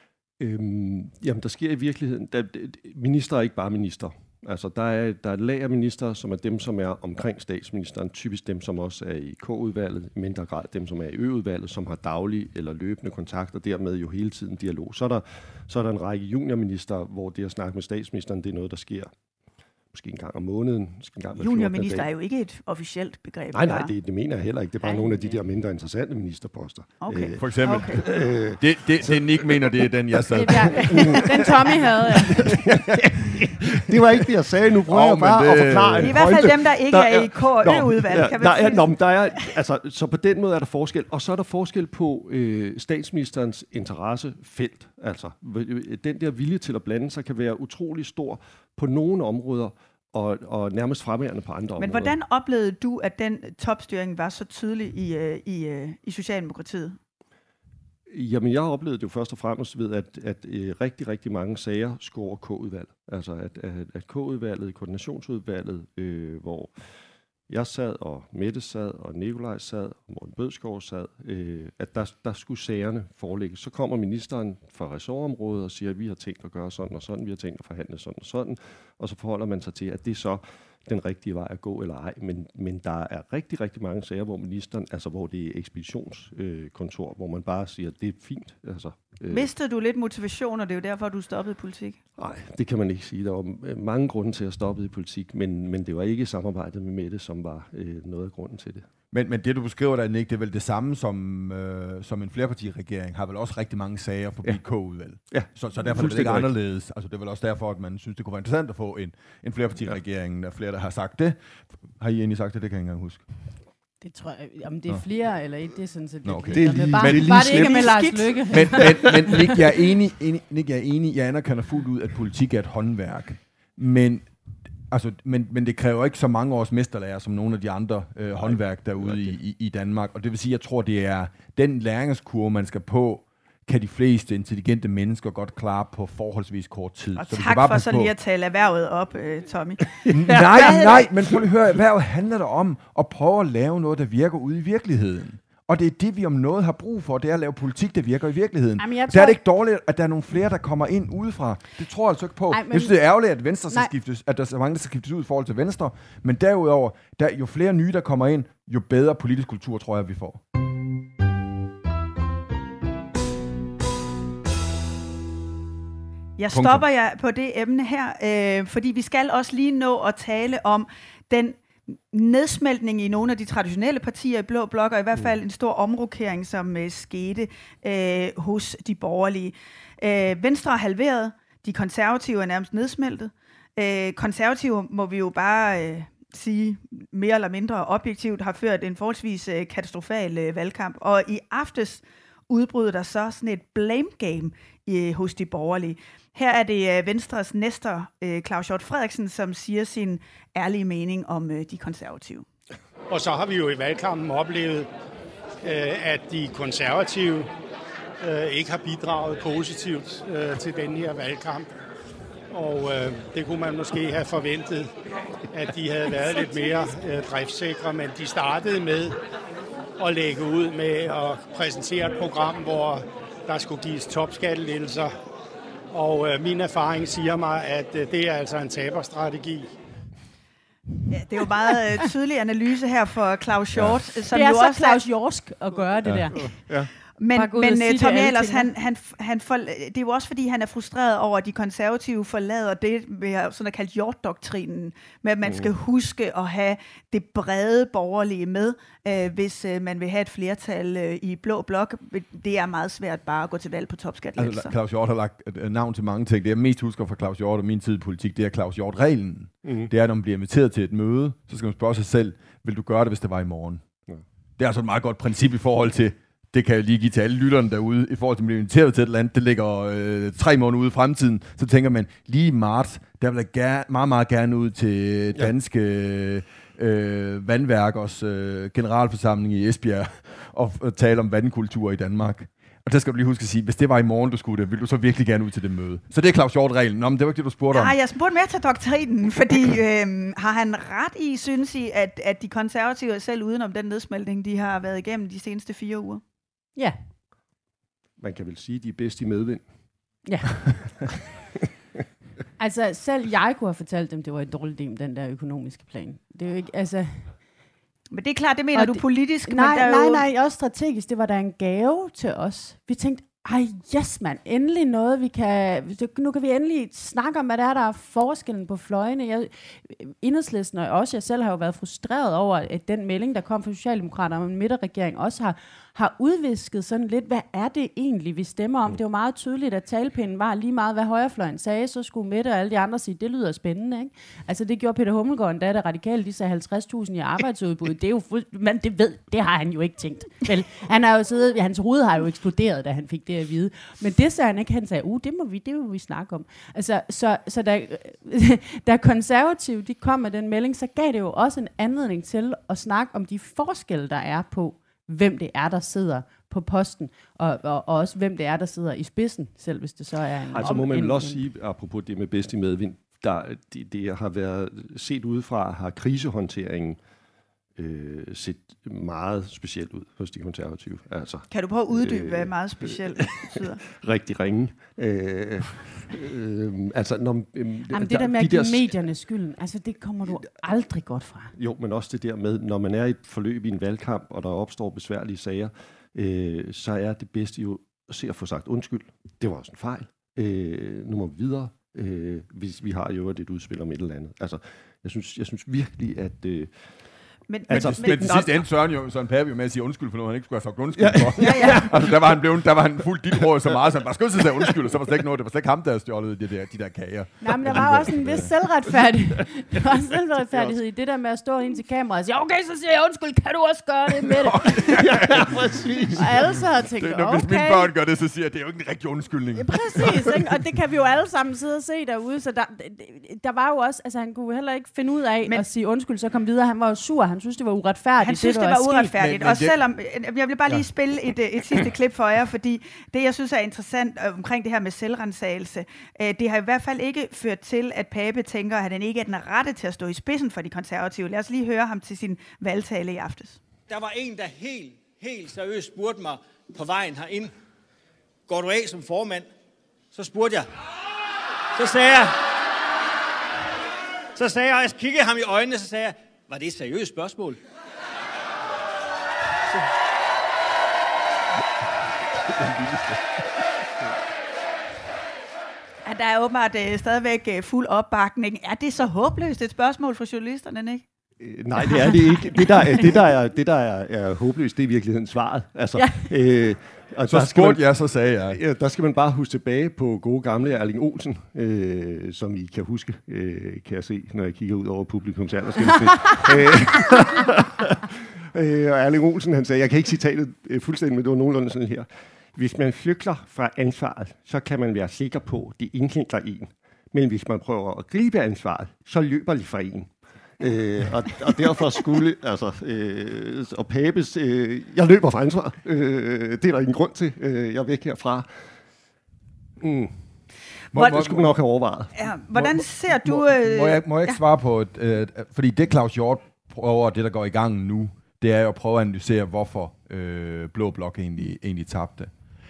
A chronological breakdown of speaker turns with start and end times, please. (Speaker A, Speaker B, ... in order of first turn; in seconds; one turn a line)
Speaker A: 0.4-19.1
Speaker A: 19.9-22.1
Speaker B: 21.4-23.9
Speaker A: 23.5-29.7
Speaker C: 24.8-25.4
Speaker B: 27.0-28.0
Speaker D: 27.4-28.0
Speaker D: 28.6-31.0
Speaker C: 30.3-32.5
Speaker A: 30.7-31.6
Speaker A: 32.3-52.1
Speaker D: 34.9-36.2
Speaker B: 36.0-39.1
Speaker B: 51.8-57.0
Speaker A: 58.1-66.7
Speaker A: 67.5-89.5
Speaker B: 89.3-92.0
Speaker A: 92.2-98.8
Speaker D: 99.1-111.4
Speaker A: 105.3-106.5
Speaker D: 112.0-113.2
Speaker C: 114.0-119.2
Speaker D: 116.2-117.7
Speaker A: 116.5-118.1
Speaker B: 117.5-118.3
Speaker D: 118.5-124.2
Speaker A: 118.7-119.5
Speaker D: 124.9-138.1
Speaker A: 128.4-129.3
Speaker B: 137.2-141.1
Speaker A: 140.0-141.1
Speaker D: 140.1-160.4
Speaker C: 148.8-149.4
Speaker C: 152.5-153.0
Speaker B: 166.4-202.5
Speaker D: 166.5-166.8
Speaker E: 203.1-204.9
Speaker E: 205.6-207.5
Speaker E: 208.2-211.7
Speaker E: 212.5-215.0
Speaker E: 215.5-219.2
Speaker E: 220.0-225.1
Speaker E: 225.9-229.7
Speaker B: 231.1-235.0
Speaker C: 234.3-236.6
Speaker A: 236.1-236.9
Speaker B: 237.2-254.7
Speaker C: 237.3-238.7
Speaker A: 245.4-245.7
Speaker D: 254.3-263.9
Speaker A: 259.6-259.9
Speaker D: 264.6-287.9
Speaker B: 287.7-296.2
Speaker A: 298.2-299.7
Speaker C: 300.2-300.5
Speaker C: 302.6-307.4
Speaker B: 308.1-310.2
Speaker C: 308.7-361.4
Speaker A: 360.5-367.0
Speaker A: 367.8-378.9
Speaker B: 371.5-373.8
Speaker C: 377.9-381.5
Speaker A: 381.6-396.7
Speaker B: 397.5-398.6
Speaker A: 397.7-398.5
Speaker D: 397.7-408.5
Speaker A: 400.9-402.3
Speaker B: 401.4-401.9
Speaker C: 407.4-415.0
Speaker D: 414.3-415.6
Speaker A: 414.9-416.3
Speaker C: 416.1-417.9
Speaker D: 417.0-420.1
Speaker C: 419.6-429.1
Speaker B: 428.2-443.6
Speaker D: 429.2-429.8
Speaker F: 443.9-447.5
Speaker F: 448.5-449.5
Speaker F: 450.1-450.7
Speaker F: 451.7-452.4
Speaker F: 454.4-457.6
Speaker A: 462.4-463.3
Speaker B: 466.0-471.0
Speaker A: 471.4-477.9
Speaker C: 475.9-476.3
Speaker D: 477.3-478.6
Speaker A: 478.5-488.0
Speaker A: 488.5-508.5
Speaker A: 509.8-510.2
Speaker D: 510.9-511.6
Speaker A: 510.9-512.8
Speaker B: 512.1-514.4
Speaker D: 513.3-522.3